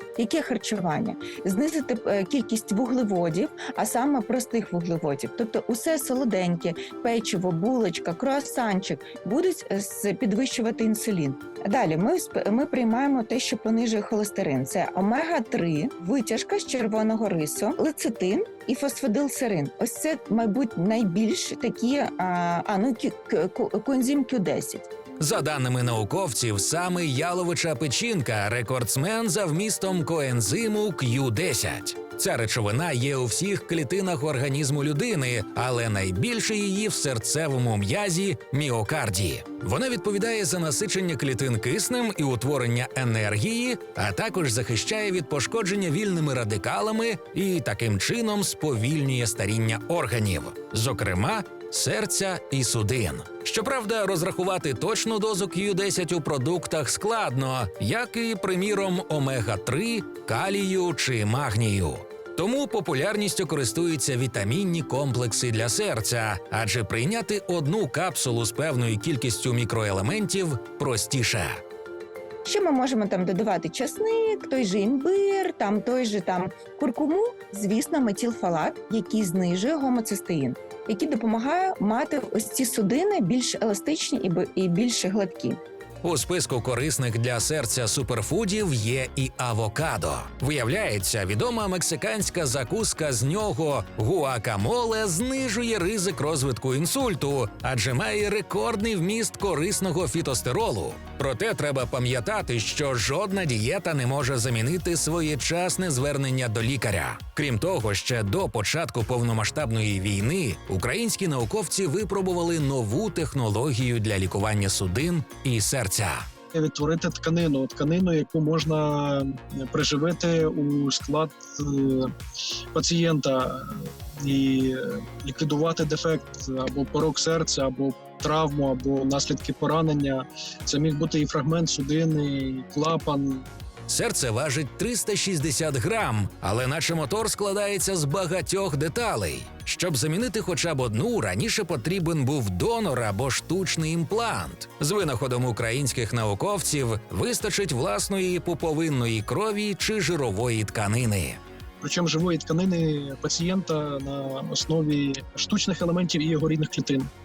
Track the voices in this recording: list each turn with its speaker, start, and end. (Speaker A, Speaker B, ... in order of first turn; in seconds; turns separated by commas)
Speaker A: 0.2-24.9, Speaker B: 25.2-71.6, Speaker A: 72.5-85.6, Speaker B: 86.0-116.3, Speaker C: 116.5-122.1, Speaker C: 122.7-133.5, Speaker B: 133.9-151.4, Speaker C: 151.8-157.1